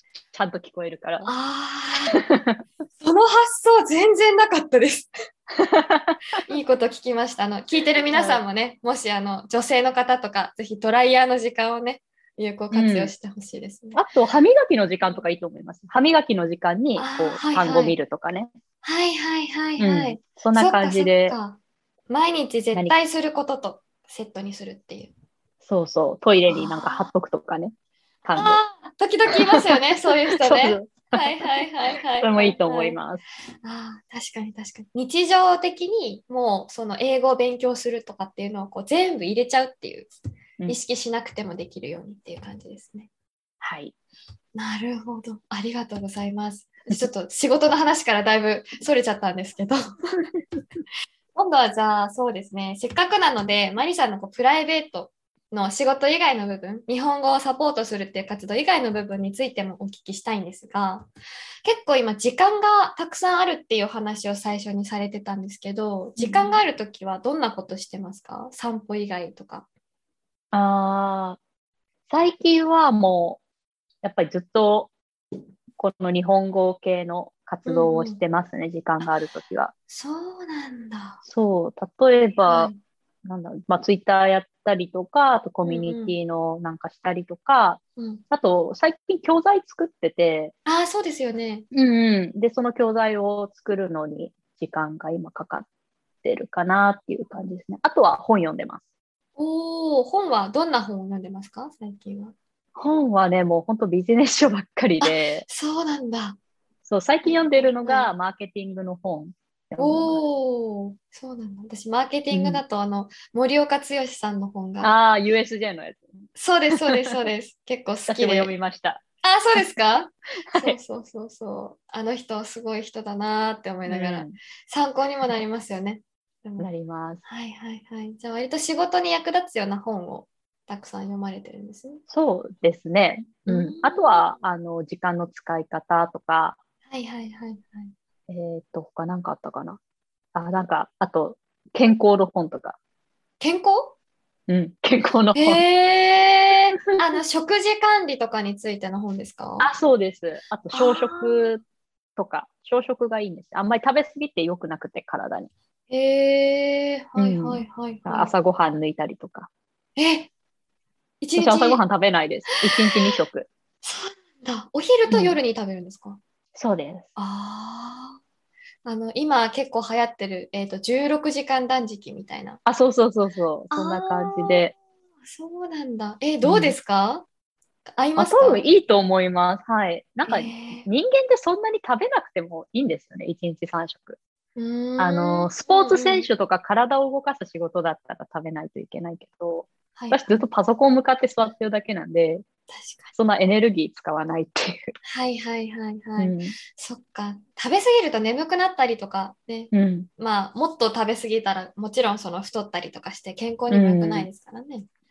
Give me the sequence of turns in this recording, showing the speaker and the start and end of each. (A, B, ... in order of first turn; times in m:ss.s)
0:00.3-0:01.3 A
0:01.2-0:02.2 B
0:02.2-0:02.6 A
0:03.0-0:05.1 B
0:05.5-0:06.2 A
0:06.4-0:14.0 B
0:08.1-0:08.4 A
0:12.7-0:13.1 A
0:13.9-0:18.5 A
0:17.0-0:18.0 B
0:18.8-0:25.1 B
0:19.8-0:21.4 A
0:25.6-0:27.7 A
0:26.5-0:27.1 B
0:28.2-0:28.6 A
0:28.3-0:33.0 B
0:29.5-0:31.6 A
0:32.2-0:33.2 A
0:33.6-0:40.1 B
0:40.7-0:43.1 B
0:43.6-0:43.9 A
0:44.6-0:49.8 B
0:51.3-1:01.1 B
1:01.6-1:09.6 B
1:06.2-1:06.6 A
1:10.5-1:11.4 A
1:12.1-1:13.4 A
1:14.0-1:14.9 A
1:15.8-1:19.7 A
1:17.6-1:18.2 B
1:19.9-1:21.2 B
1:21.2-1:22.7 A
1:22.5-1:22.8 B
1:23.2-1:27.8 A
1:25.6-1:26.1 B
1:28.0-1:28.2 B
1:28.3-1:30.5 A
1:30.6-1:31.6 B
1:31.7-1:35.7 A
1:36.2-1:38.8 A
1:39.4-1:42.3 B
1:42.8-1:45.4 A
1:45.0-1:46.4 B
1:46.8-1:50.2 A
1:47.2-1:48.1 B
1:49.8-1:54.9 B
1:52.3-1:52.6 A
1:54.8-1:56.1 A
1:56.4-1:58.5 B
1:56.7-1:57.1 A
1:58.1-1:59.0 A
1:59.2-2:06.7 B
2:00.5-2:00.8 A
2:03.9-2:04.3 A
2:06.6-2:07.2 A
2:07.2-2:12.0 B
2:12.1-2:16.6 A
2:13.4-2:14.2 B
2:16.9-2:17.9 B
2:18.3-2:19.8 A
2:20.3-2:22.8 A
2:23.4-2:24.0 B
2:24.5-2:25.6 A
2:25.3-2:29.7 B
2:29.6-2:31.6 A
2:30.7-2:31.5 B
2:32.2-2:35.5 A
2:35.9-2:38.3 B
2:37.2-2:39.5 A
2:40.0-2:40.3 B
2:41.2-2:41.8 B
2:41.4-2:43.5 A
2:42.5-2:43.1 B
2:43.8-2:46.2 B
2:45.1-2:45.4 A
2:46.5-2:47.1 A
2:47.2-2:48.2 B
2:48.8-2:52.6 B
2:52.6-2:54.7 A
2:53.7-2:54.7 B
2:55.2-2:57.2 B
2:56.4-2:56.8 A
2:57.9-2:58.7 B
2:58.2-3:04.2 A
3:00.3-3:00.9 B
3:04.6-3:06.3 B
3:05.0-3:12.4 A
3:09.9-3:10.4 B
3:12.7-3:13.1 B
3:13.1-3:14.9 A
3:15.1-3:24.8 B
3:16.2-3:16.5 A
3:19.7-3:20.1 A
3:23.7-3:24.3 A